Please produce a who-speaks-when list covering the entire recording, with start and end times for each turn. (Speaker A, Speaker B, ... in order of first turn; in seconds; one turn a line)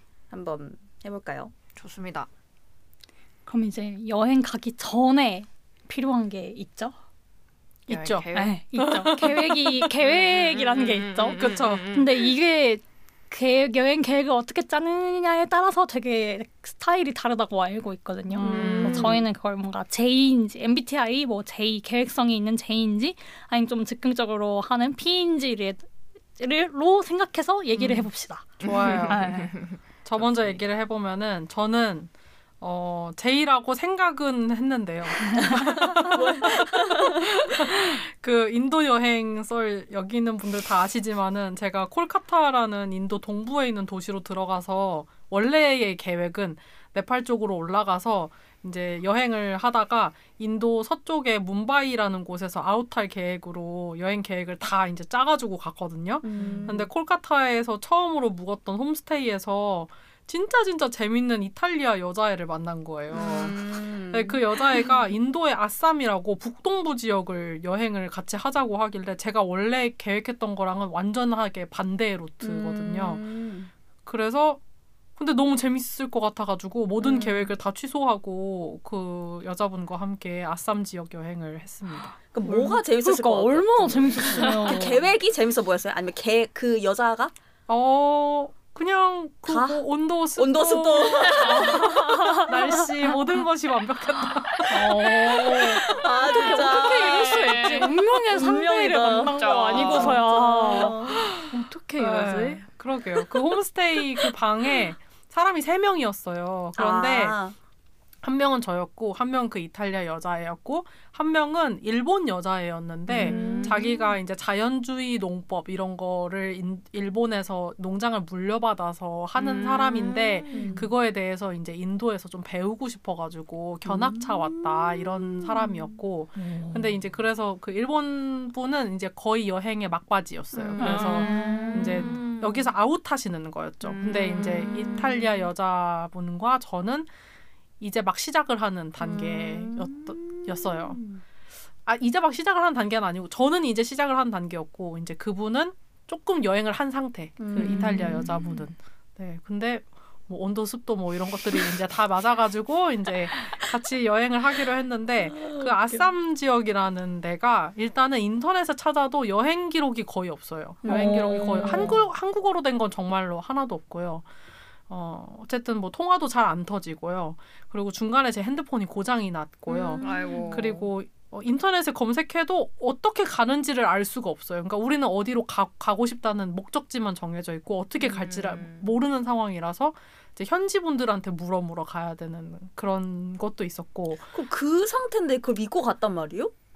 Speaker A: 0.3-1.5
Speaker B: 1.7-2.3
Speaker C: 3.5-6.9
Speaker D: 7.9-8.3
Speaker B: 7.9-12.3
Speaker C: 8.3-29.5
Speaker D: 8.8-9.2
Speaker D: 11.3-11.8
Speaker D: 18.4-19.1
Speaker A: 18.4-19.2
Speaker B: 18.4-19.2
Speaker D: 27.7-28.1
Speaker D: 28.6-29.3
Speaker B: 28.6-30.6
Speaker D: 30.0-73.2
Speaker A: 36.1-37.6
Speaker A: 56.2-56.9
Speaker A: 63.1-64.9
Speaker A: 72.4-73.7
Speaker D: 74.0-74.6
Speaker D: 75.2-82.2
Speaker A: 77.0-77.5
Speaker A: 82.3-87.3
Speaker C: 82.4-85.1
Speaker D: 87.7-94.8
Speaker A: 89.5-89.8
Speaker A: 90.3-92.5
Speaker C: 91.5-92.7
Speaker C: 94.7-102.6
Speaker A: 95.3-101.3
Speaker B: 96.5-98.0
Speaker B: 99.3-100.2
Speaker D: 102.0-107.4
Speaker A: 106.8-107.5
Speaker D: 108.2-137.1
Speaker A: 113.1-114.2
Speaker B: 113.2-113.8
Speaker B: 119.3-120.6
Speaker A: 120.5-120.9
Speaker A: 123.8-126.0
Speaker C: 126.4-126.9
Speaker A: 130.5-132.6
Speaker C: 130.8-132.1
Speaker B: 130.9-131.4
Speaker A: 133.8-135.4
Speaker B: 134.1-135.2
Speaker D: 137.8-141.0
Speaker A: 139.0-141.2
Speaker D: 141.8-164.3
Speaker A: 147.4-148.7
Speaker C: 147.7-148.2
Speaker A: 155.3-156.1
Speaker A: 160.8-162.0
Speaker C: 160.8-162.0
Speaker D: 164.9-184.3
Speaker A: 169.7-170.7
Speaker B: 170.0-170.9
Speaker B: 178.0-178.9
Speaker A: 184.3-186.5